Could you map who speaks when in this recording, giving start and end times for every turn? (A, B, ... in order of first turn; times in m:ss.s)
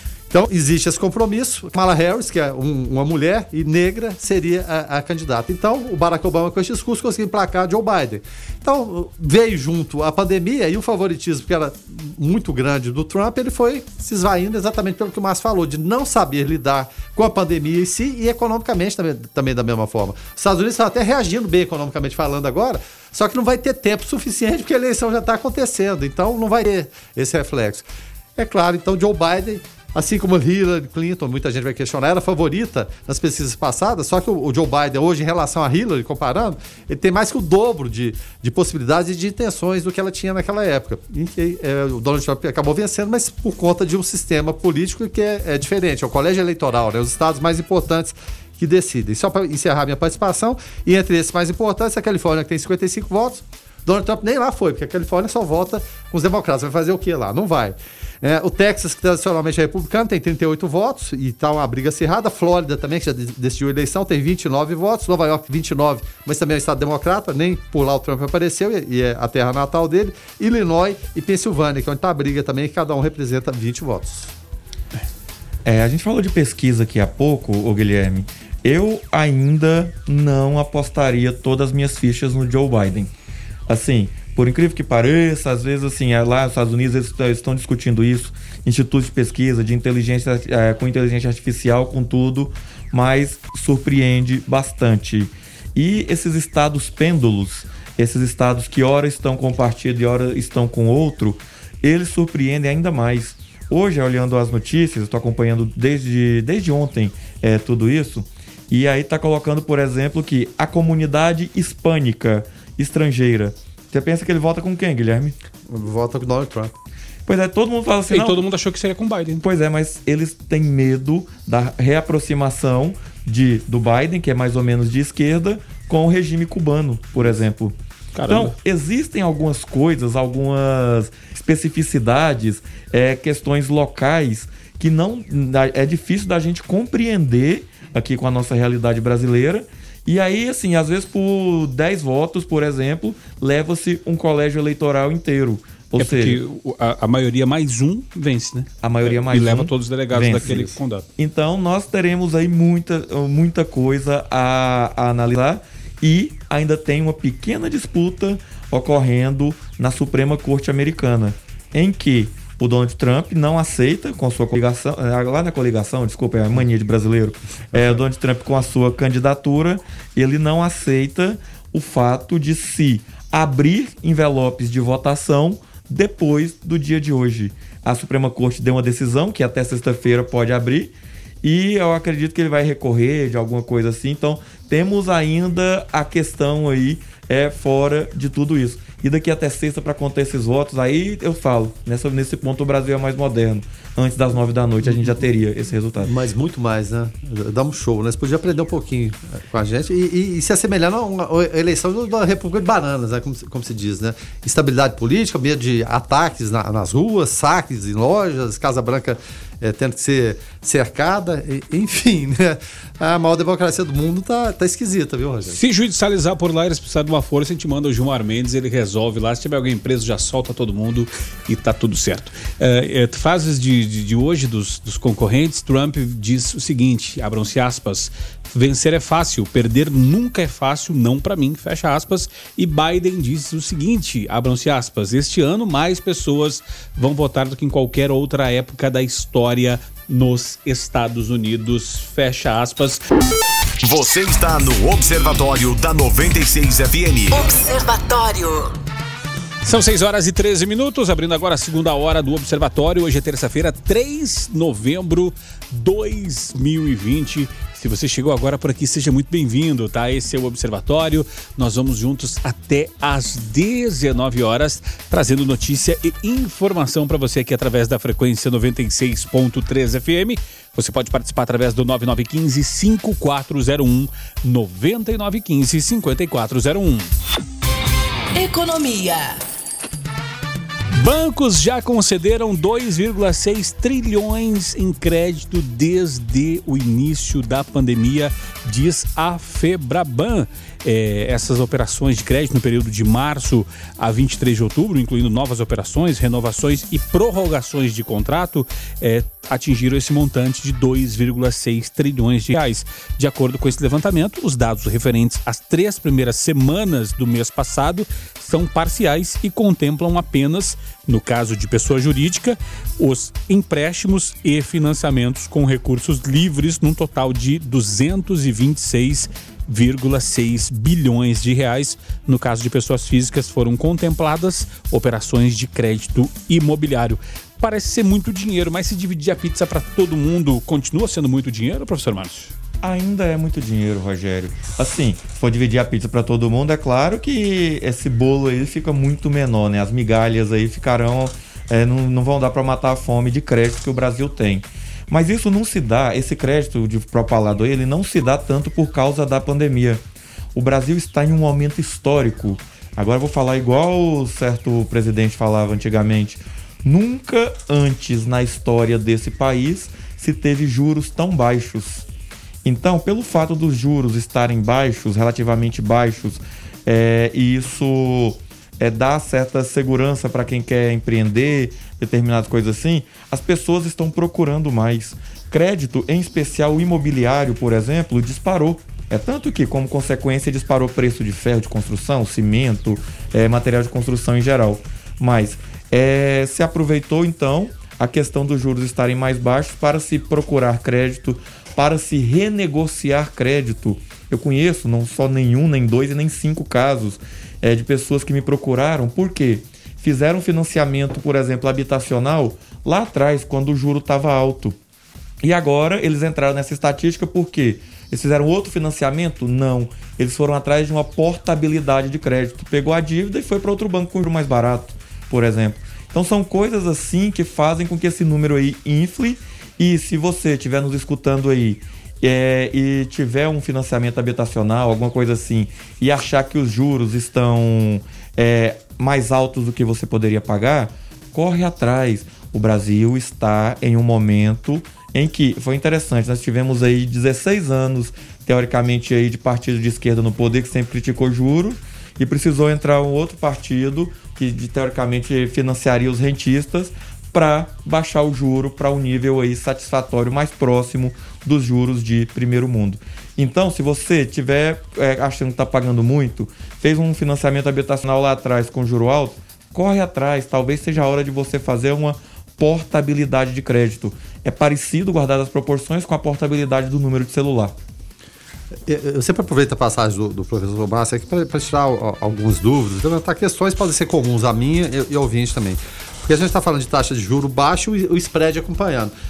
0:00.3-1:14.3 A
1:15.6-1:23.1 B
1:23.7-1:55.4 B
1:55.7-1:56.7 A
1:57.3-1:58.4 B
1:58.1-1:59.4 C
1:59.4-2:07.8 B
2:08.2-2:08.6 C
2:08.3-2:26.4 B
2:26.0-2:31.1 C
2:28.8-3:16.1 B
3:16.0-3:35.6 A
3:35.5-4:03.0 C
4:03.8-4:07.3 D
4:07.3-4:08.8 E
4:09.6-4:37.1 C
4:38.4-4:39.4 E
4:40.9-5:32.5 C
5:32.8-5:50.0 B
5:50.6-6:02.1 B
6:02.6-6:44.8 B
6:45.4-7:47.8 B
7:48.9-7:59.1 A